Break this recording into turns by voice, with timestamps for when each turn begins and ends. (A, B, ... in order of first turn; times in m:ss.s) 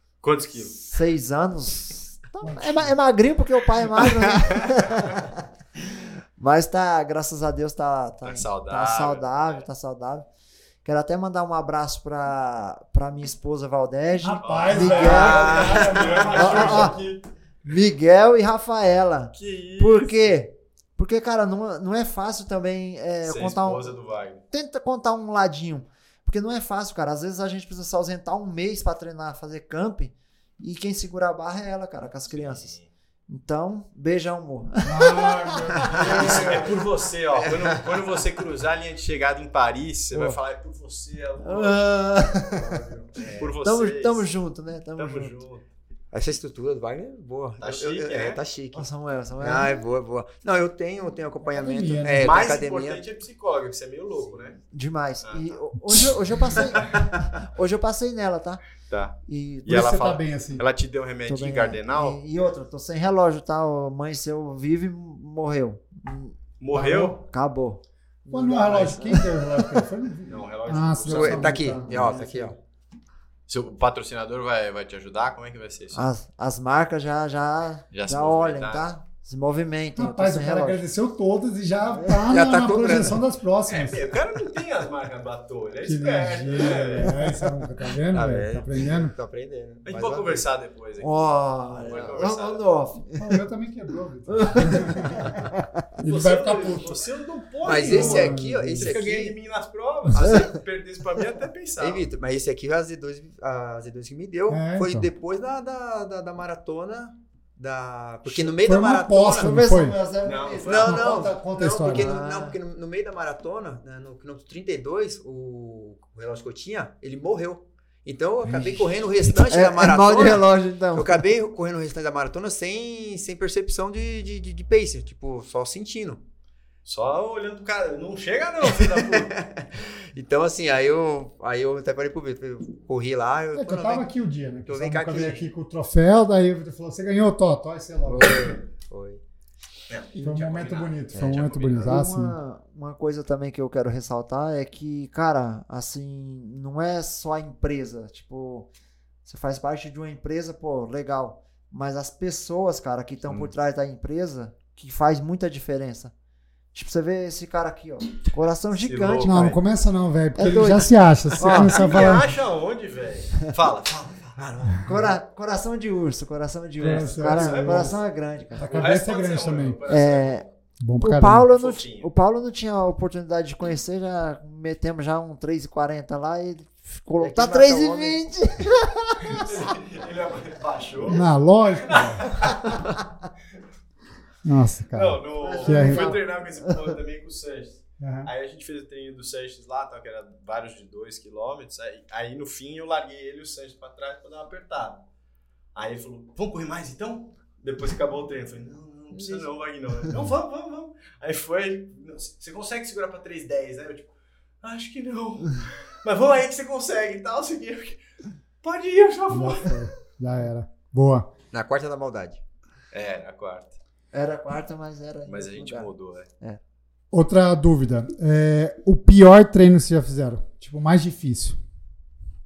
0:00.2-0:00.8 A
0:00.7-0:10.3 B
0:02.4-0:02.9 C
0:04.0-0:04.7 A
0:08.2-0:09.6 A
0:10.8-0:17.0 B
0:14.2-0:17.0 C
0:14.4-0:17.2 A
0:15.0-0:16.3 D
0:17.6-0:23.9 B
0:19.3-0:20.3 A
0:23.2-0:24.4 A
0:24.5-0:32.7 B
0:32.3-0:32.9 A
0:33.3-0:36.8 B
0:34.8-0:36.8 C
0:35.9-0:44.3 A
0:37.3-0:37.9 D
0:41.4-0:42.9 B
0:43.2-0:43.5 D
0:43.6-0:45.3 B
0:45.0-0:45.6 A
0:46.1-0:48.9 D
0:47.6-0:48.4 A
0:48.7-0:49.8 B
0:49.4-0:53.0 D
0:51.4-0:52.5 C
0:52.2-0:54.6 A
0:54.7-0:58.6 B
0:55.2-0:55.6 A
0:58.9-1:02.4 A
0:59.2-0:59.9 B
0:59.7-1:00.6 C
1:01.2-1:09.8 B
1:06.6-1:07.2 A
1:08.3-1:12.5 C
1:10.3-1:11.8 A
1:11.0-1:12.6 D
1:11.8-1:12.5 B
1:13.5-1:16.0 A
1:15.9-1:20.8 B
1:17.9-1:18.9 A
1:20.0-1:24.1 C
1:22.2-1:23.2 D
1:23.7-1:27.2 A
1:25.8-1:29.1 C
1:28.1-1:30.4 D
1:29.8-1:32.6 A
1:31.0-1:33.4 B
1:31.8-1:32.1 D
1:33.2-1:35.4 C
1:34.3-1:35.7 B
1:36.0-1:37.0 C
1:36.0-1:42.1 A
1:37.6-1:39.3 D
1:37.7-1:39.0 C
1:40.2-1:40.4 D
1:40.2-1:40.5 B
1:41.8-1:49.6 D
1:44.5-1:45.1 C
1:48.2-1:50.0 C
1:49.3-1:51.2 B
1:50.2-1:51.0 A
1:50.6-2:06.2 D
1:50.8-1:52.2 C
1:51.8-1:52.6 B
1:59.3-2:01.3 B
2:06.8-2:09.4 A
2:08.6-2:14.1 D
2:13.5-2:18.6 C
2:14.6-2:15.5 D
2:18.0-2:19.2 D
2:19.9-2:21.9 A
2:20.2-2:22.4 C
2:21.1-2:21.4 D
2:21.8-2:28.7 B
2:29.2-2:36.1 B
2:36.7-2:39.6 B
2:38.8-2:39.6 A
2:39.2-2:42.3 C
2:40.3-2:42.1 B
2:41.4-2:44.5 A
2:44.4-2:44.8 D
2:44.8-2:48.9 B
2:46.8-2:48.0 C
2:46.8-2:48.0 A
2:48.5-2:49.8 C
2:48.7-2:50.5 A
2:49.9-2:50.4 B
2:50.8-2:51.5 C
2:51.0-2:59.6 B
2:51.4-2:52.1 A
2:57.2-2:58.2 D
2:59.2-3:02.8 A
3:01.1-3:02.3 C
3:04.4-3:06.2 C
3:04.9-3:15.0 A
3:05.4-3:06.7 B
3:08.0-3:08.3 C
3:15.7-3:24.1 A
3:24.6-3:28.0 A
3:28.6-3:29.8 A
3:29.3-3:31.3 C
3:31.5-3:32.4 D
3:32.9-3:33.8 A
3:34.1-3:36.6 B
3:35.2-3:36.3 A
3:37.1-3:41.6 C